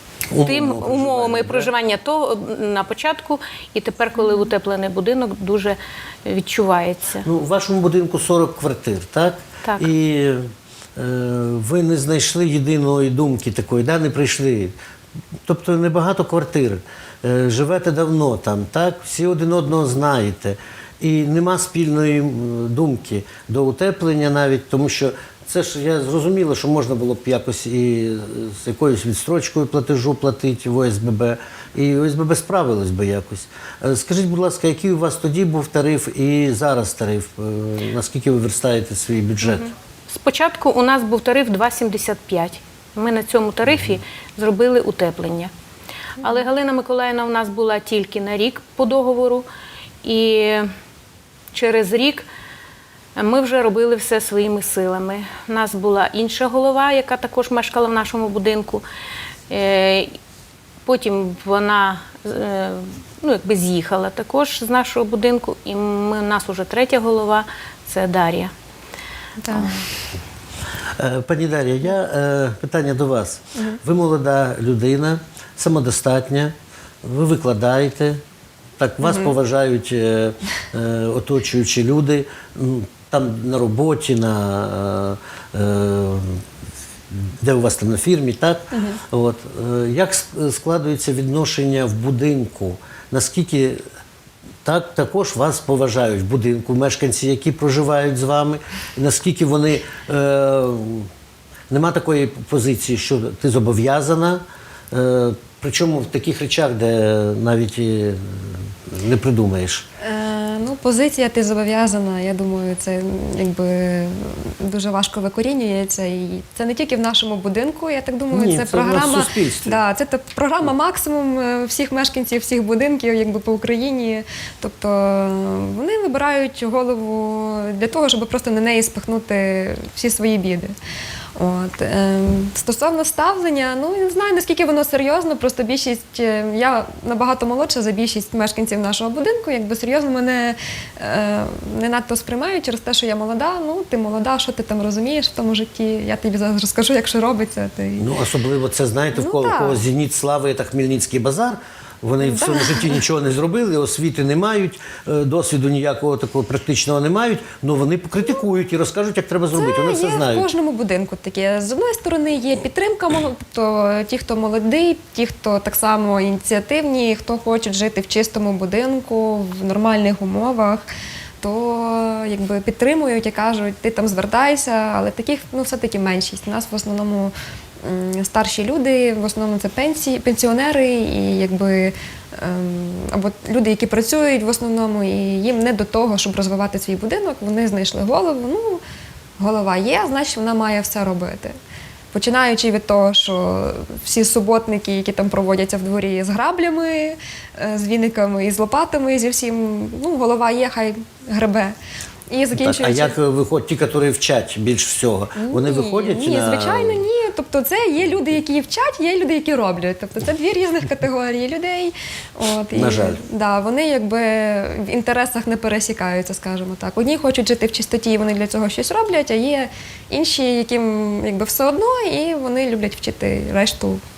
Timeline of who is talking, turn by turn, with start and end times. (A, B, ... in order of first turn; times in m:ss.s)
0:00.3-0:01.7 A
0:00.4-0:07.3 B
0:07.2-0:14.8 A
0:09.6-0:09.9 B
0:15.4-0:39.6 A
0:39.4-0:45.5 B
0:46.2-0:49.4 B
0:50.0-0:50.7 B
0:51.5-0:52.2 B
0:53.2-0:58.8 B
0:59.5-1:00.1 B
1:00.8-1:08.5 B
1:09.4-1:09.8 C
1:09.5-1:09.8 B
1:11.0-1:18.2 A
1:18.8-1:26.4 A
1:19.0-1:19.3 C
1:27.1-1:33.8 A
1:28.7-1:29.0 C
1:34.6-1:41.1 A
1:41.7-1:49.8 A
1:50.0-2:10.7 C
1:58.3-1:59.8 A
2:11.4-2:28.1 C
2:28.0-2:40.4 A
2:29.1-2:29.8 C
2:32.2-2:33.0 C
2:39.5-2:50.8 C
2:51.4-2:57.3 C
2:57.8-3:08.8 C
3:09.4-3:11.6 C
3:12.1-3:21.7 C
3:22.3-3:23.2 C
3:22.5-3:27.1 A
3:25.4-3:44.0 C
3:32.7-3:33.2 A